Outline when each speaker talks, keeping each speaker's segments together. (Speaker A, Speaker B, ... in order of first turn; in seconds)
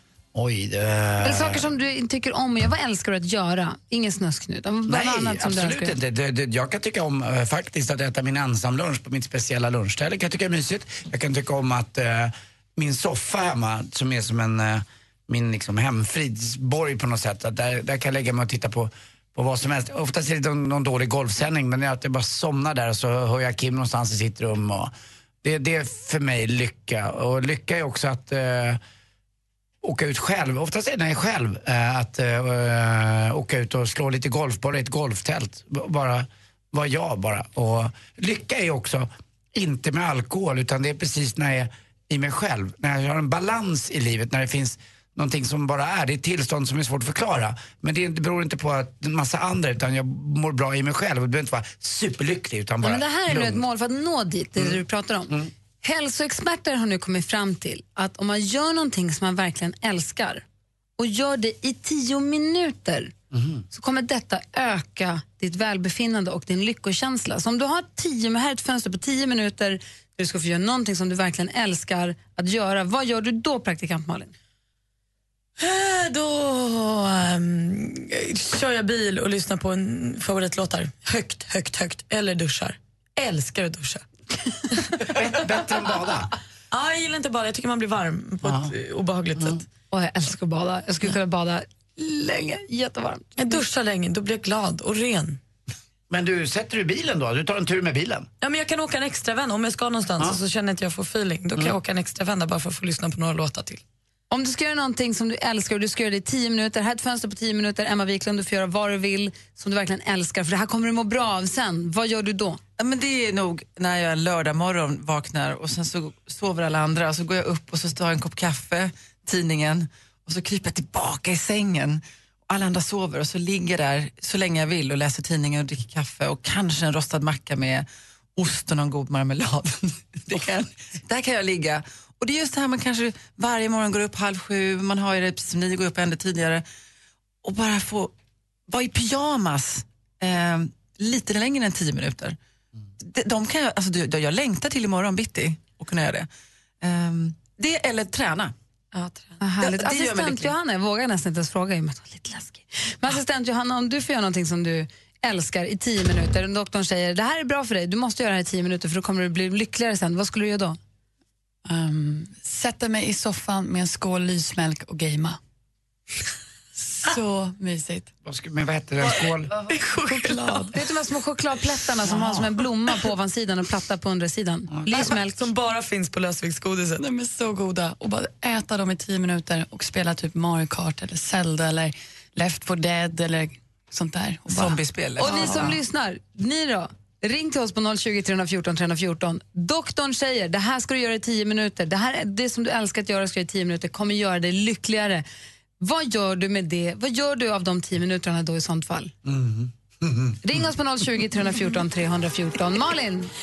Speaker A: 0.3-1.7, 4.9-28.8, 29.8-53.6, 54.6-55.5, 63.3-63.6, 85.0-86.3, 88.4-88.7, 96.1-98.3, 168.2-169.5, 199.2-200.4
Speaker B: 1.2-6.0, 52.8-60.4, 61.0-63.1, 63.7-74.3, 89.9-93.6, 104.3-112.6, 149.4-160.8, 170.7-175.5, 185.2-195.2, 195.8-199.1, 200.4-203.3
Speaker C: 75.6-84.0, 84.7-85.1, 86.7-89.6, 93.4-95.4, 98.4-103.8, 148.9-149.4, 169.7-170.7, 174.9-177.0
Speaker D: 112.8-136.6, 137.4-138.1, 138.7-142.4, 143.0-146.3, 146.8-148.5, 149.6-150.5, 184.5-185.8
Speaker E: 161.7-165.4, 166.8-168.1, 169.5-170.7, 177.0-184.8